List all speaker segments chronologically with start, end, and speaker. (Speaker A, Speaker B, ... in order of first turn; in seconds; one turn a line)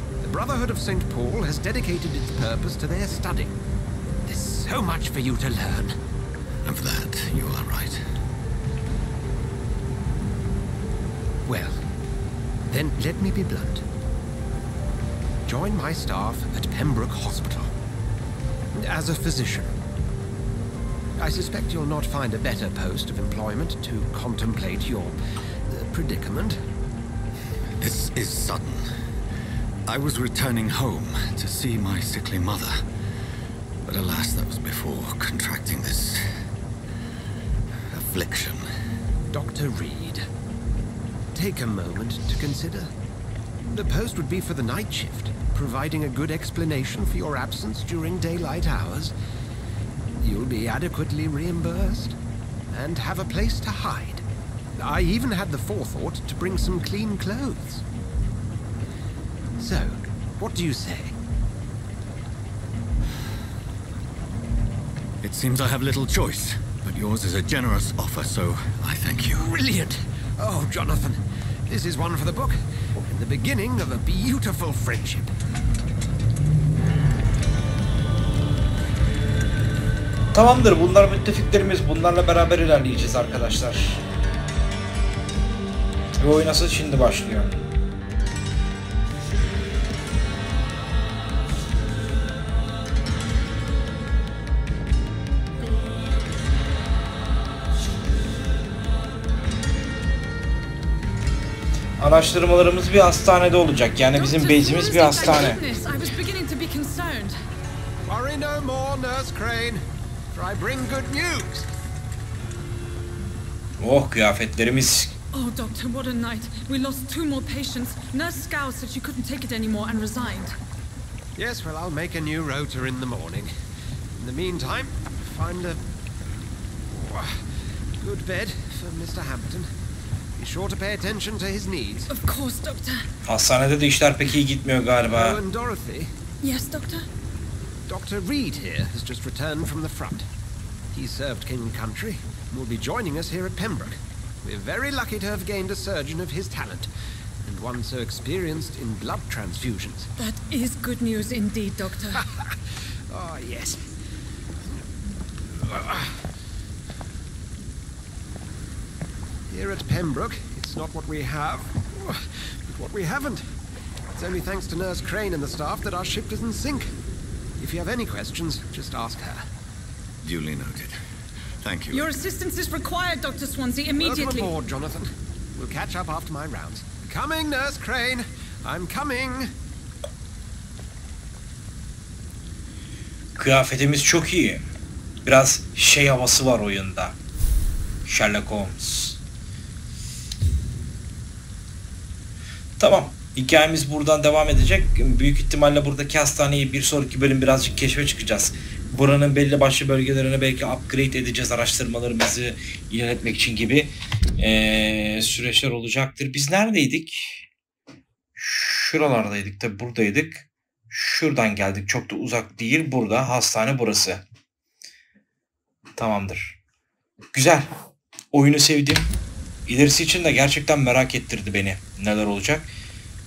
Speaker A: 0.2-3.6
Speaker A: 4.2-6.0
Speaker B: 6.6-8.0
Speaker A: 11.4-11.8
Speaker A: 12.7-13.8
Speaker A: 15.4-17.7
Speaker A: 18.7-19.7
Speaker A: 21.2-25.1
Speaker A: 25.7-26.6
Speaker B: 27.8-28.9
Speaker B: 29.9-32.8
Speaker B: 33.8-36.2
Speaker B: 37.9-38.7
Speaker A: 39.3-40.3
Speaker A: 41.3-42.9
Speaker A: 43.7-49.1
Speaker A: 50.2-52.2
Speaker A: 52.7-54.2
Speaker A: 54.8-57.8
Speaker A: 59.6-61.2
Speaker B: 65.2-69.5
Speaker A: 69.3-75.3
Speaker C: 80.3-84.0
Speaker C: 86.2-87.5
Speaker C: 102.0-105.6
Speaker D: 104.1-107.3
Speaker A: 108.0-109.8
Speaker A: 110.3-111.7
Speaker C: 113.8-115.2
Speaker D: 115.3-120.5
Speaker A: 121.3-123.5
Speaker A: 124.2-125.8
Speaker A: 126.9-127.4
Speaker A: 128.0-129.7
Speaker A: 130.4-132.1
Speaker D: 132.1-133.1
Speaker C: 133.3-135.4
Speaker A: 135.1-136.1
Speaker D: 136.4-137.1
Speaker A: 137.9-140.3
Speaker A: 140.9-146.9
Speaker A: 147.4-150.1
Speaker D: 150.2-152.2
Speaker A: 152.2-152.5
Speaker A: 153.1-153.8
Speaker A: 155.5-156.1
Speaker A: 159.5-163.4
Speaker A: 164.1-166.9
Speaker A: 167.6-169.4
Speaker B: 170.2-171.0
Speaker B: 171.6-172.1
Speaker D: 171.9-174.5
Speaker A: 173.9-179.5
Speaker C: 183.4-184.7
Speaker C: 185.2-187.2
Speaker C: 188.1-189.2
Speaker C: 192.8-207.4
Speaker C: 208.3-214.2
Speaker C: 216.0-216.6
Speaker C: 217.3-217.7
Speaker C: 218.3-219.1
Speaker C: 219.7-222.7